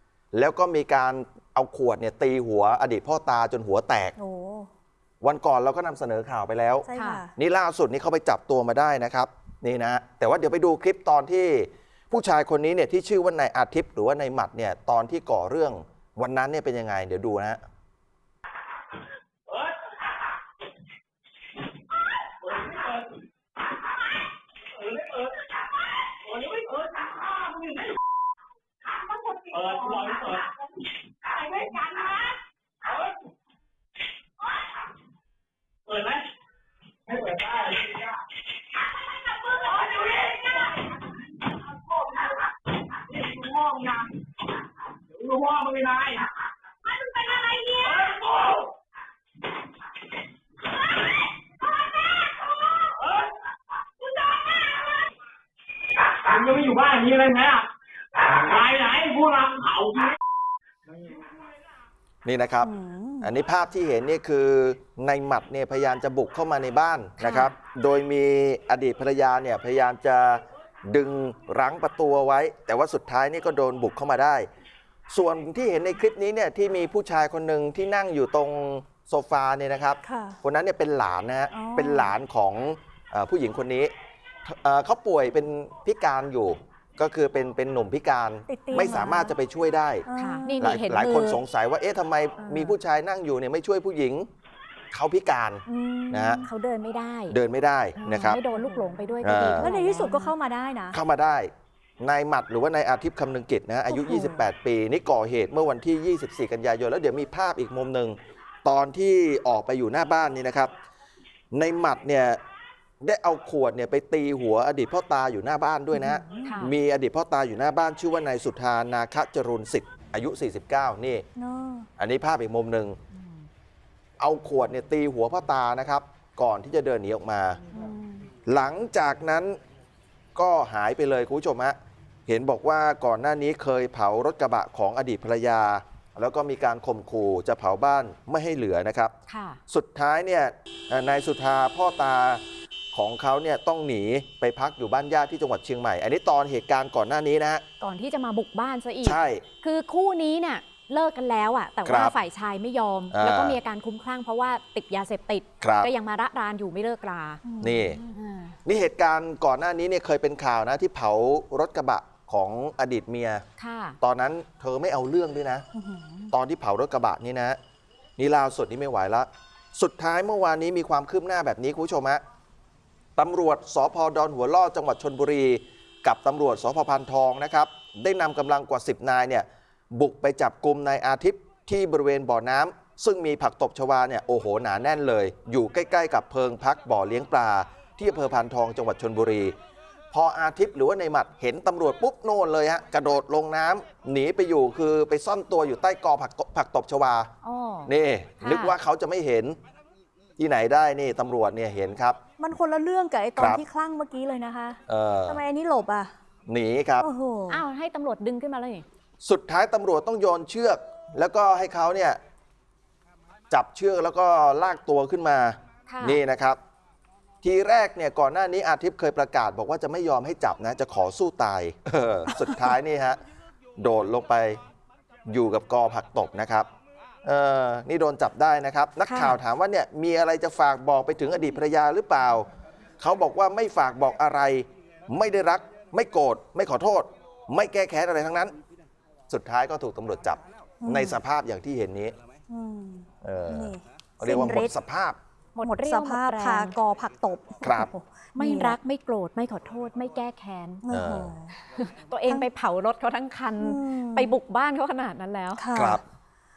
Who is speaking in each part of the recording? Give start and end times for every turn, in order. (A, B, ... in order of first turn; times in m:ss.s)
0:00.3-0:04.1 A
0:04.2-0:04.7 B
0:05.2-0:17.6 A
0:06.9-0:07.3 B
0:07.0-0:07.2 C
0:22.4-0:23.0 D
0:24.8-0:25.3 D
0:26.2-0:27.8 D
0:29.4-0:30.5 D
0:31.2-0:32.2 D
0:35.9-0:36.2 D
0:37.1-0:38.1 D
0:39.5-0:40.6 D
0:43.0-0:44.1 D
0:45.1-0:46.3 D
0:47.7-0:48.6 D
0:56.2-0:57.7 D
0:58.2-1:00.2 D
1:02.2-1:14.5 A
1:02.6-1:03.3 B
1:07.2-1:07.5 C
1:15.1-1:23.9 A
1:20.0-1:20.4 B
1:21.5-1:22.2 B
1:24.4-1:30.1 A
1:28.5-1:29.4 B
1:30.1-1:30.7 B
1:30.2-1:31.4 C
1:30.6-1:34.3 A
1:32.4-1:32.8 C
1:34.9-1:36.4 A
1:35.7-1:36.4 B
1:35.9-1:37.4 C
1:37.3-1:38.4 A
1:38.0-1:40.3 C
1:38.5-1:39.0 B
1:39.2-1:39.7 A
1:39.6-1:41.0 B
1:40.9-1:50.7 A
1:43.9-1:44.4 B
1:51.5-1:52.4 A
1:53.0-2:01.2 A
1:55.9-1:56.6 B
1:56.4-1:56.7 C
2:01.4-2:01.9 B
2:02.0-2:03.0 A
2:03.1-2:03.5 C
2:04.2-2:07.6 A
2:07.7-2:08.3 B
2:08.5-2:09.6 A
2:10.3-2:11.8 A
2:12.3-2:19.1 A
2:19.3-2:19.6 C
2:19.7-2:22.4 A
2:22.9-2:27.6 A
2:27.8-2:38.6 C
2:29.0-2:29.4 A
2:31.8-2:32.1 A
2:33.1-2:33.6 A
2:35.6-2:35.9 A
2:37.4-2:37.9 B
2:37.6-2:38.0 A
2:38.6-2:43.4 A
2:43.6-2:44.0 C
2:44.0-2:45.6 A
2:45.7-2:46.3 B
2:46.3-2:47.6 A
2:48.2-2:52.2 A
2:53.2-3:09.6 A
3:10.1-3:17.3 A
3:17.4-3:17.9 C
3:17.9-3:19.6 A
3:18.4-3:18.8 C
3:20.4-3:22.2 A
3:22.4-3:26.1 B
3:23.4-3:23.6 A
3:24.9-3:25.4 A
3:26.5-3:27.1 A
3:27.0-3:27.6 B
3:27.5-3:28.8 C
3:29.2-3:32.2 A
3:33.5-3:36.6 A
3:35.9-3:36.2 C
3:37.4-3:43.2 A
3:43.8-3:44.6 A
3:45.3-3:46.7 A
3:47.2-3:52.5 A
3:49.1-3:49.4 C
3:53.0-3:58.6 A
3:59.3-4:02.1 A
4:00.8-4:01.2 B
4:02.5-4:04.7 B
4:03.2-4:05.2 A
4:05.6-4:06.8 C
4:05.6-4:08.8 B
4:07.6-4:07.9 A
4:08.4-4:10.8 C
4:10.8-4:11.6 B
4:10.9-4:11.4 A
4:11.7-4:15.6 C
4:13.6-4:14.3 B
4:15.6-4:16.0 B
4:15.7-4:16.0 A